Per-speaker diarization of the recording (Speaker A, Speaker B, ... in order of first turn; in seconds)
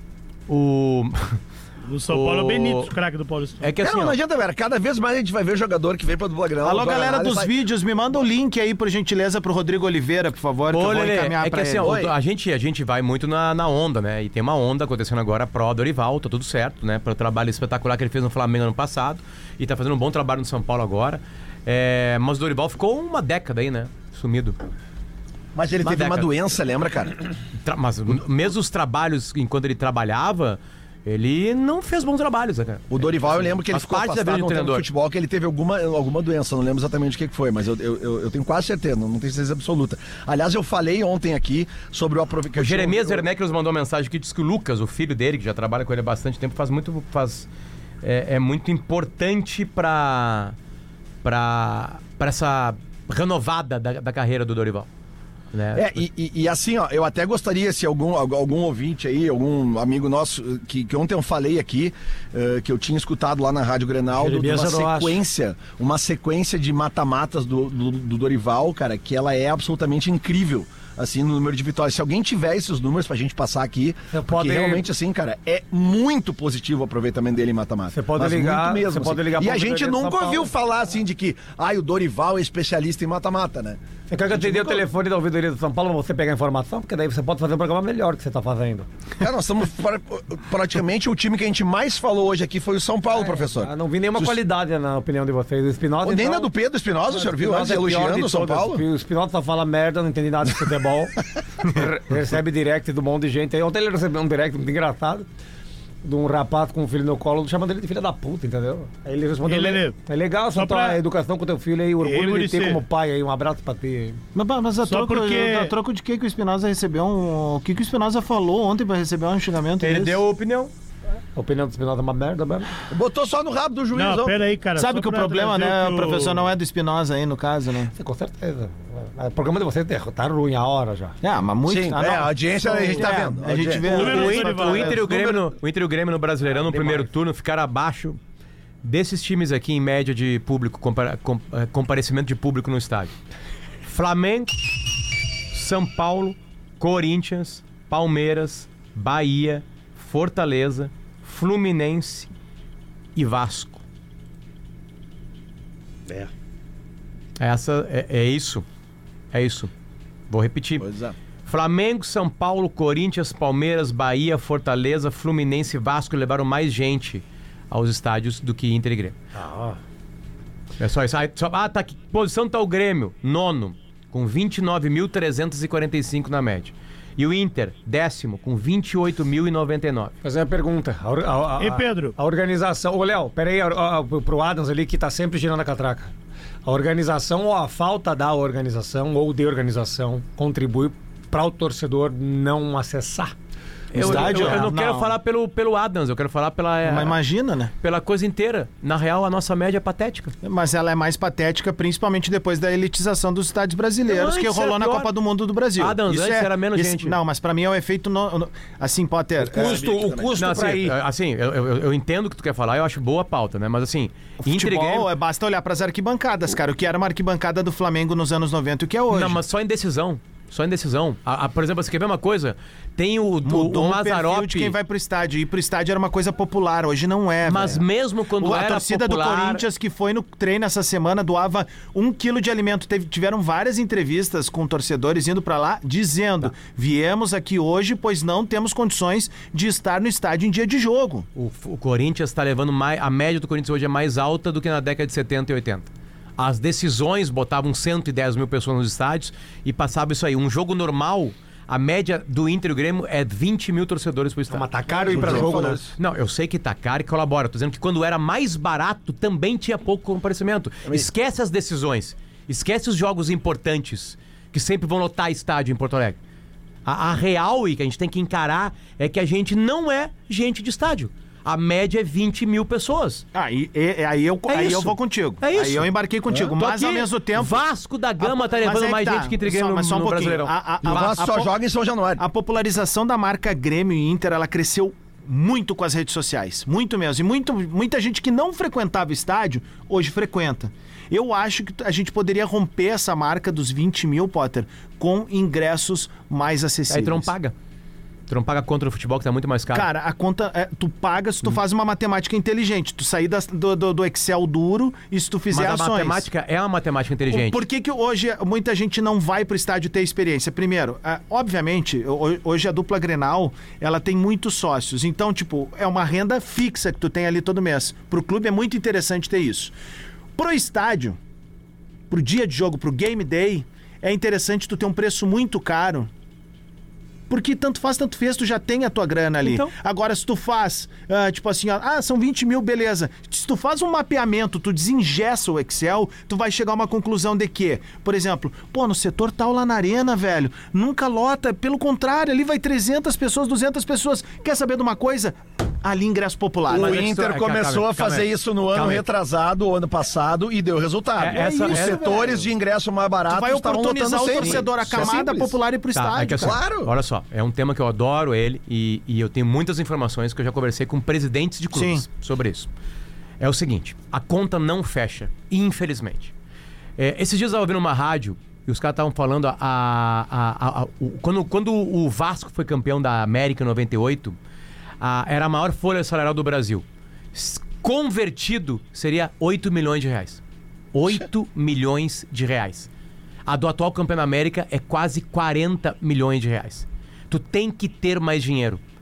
Speaker A: 0.5-1.4, 2.1-2.9, 3.6-4.2, 10.7-24.6, 25.8-26.3, 27.6-34.9, 42.5-47.5, 48.0-50.5, 51.2-54.9, 55.5-56.0, 119.8-120.7, 133.9-138.2, 138.8-143.1, 143.8-144.8, 145.5-152.3, 153.2-153.8, 157.4-158.6, 159.3-159.7, 160.3-160.9, 161.4-169.2, 170.8-180.1, 193.9-197.2, 197.8-200.3, 204.1-205.1, 205.8-207.2, 210.4-215.1, 219.1-224.7, 227.4-229.6, 241.3-266.2, 266.8-273.2, 274.5-281.2, 296.9-297.5, 298.3-299.9, 305.5-307.6, 329.4-329.7, 346.7-349.1, 351.2-352.4, 354.4-354.6, 355.9-362.7, 363.4-366.3, 367.0-374.4, 375.0-380.4, 380.9-382.9, 383.4-388.8
Speaker B: 1.9-3.7, 109.4-110.0, 110.5-111.0, 112.0-112.8, 114.8-115.7, 123.9-126.4, 133.8-134.9, 181.6-182.1
Speaker C: 3.8-7.5, 11.8-12.1, 25.5-27.1, 32.9-43.2, 55.7-83.8, 84.3-84.8, 89.2-94.4, 96.0-98.8, 122.9-124.4, 131.7-134.2, 134.8-135.4, 160.8-161.2, 209.5-210.4, 255.0-255.9, 280.8-282.2, 346.7-355.6, 356.4-356.9
Speaker D: 6.6-12.0, 114.3-120.2, 124.8-127.9, 131.2-135.0, 193.9-195.2, 196.8-197.7, 200.4-209.8, 214.4-219.4, 223.4-227.8, 228.4-241.3, 273.3-277.6, 278.2-281.5, 282.2-297.3, 299.7-306.3, 307.3-319.7, 320.4-321.2, 322.1-326.1, 327.3-347.0, 351.3-352.5, 353.3-356.6, 361.7-362.0
Speaker E: 64.1-65.2, 74.1-74.9, 77.9-80.5, 84.1-88.9, 93.1-96.5, 97.1-105.2, 106.0-114.2, 121.3-122.7, 127.9-131.2, 136.7-137.1, 169.3-169.8, 180.2-186.1, 186.7-193.3, 194.0-194.6, 209.4-211.0, 254.5-255.9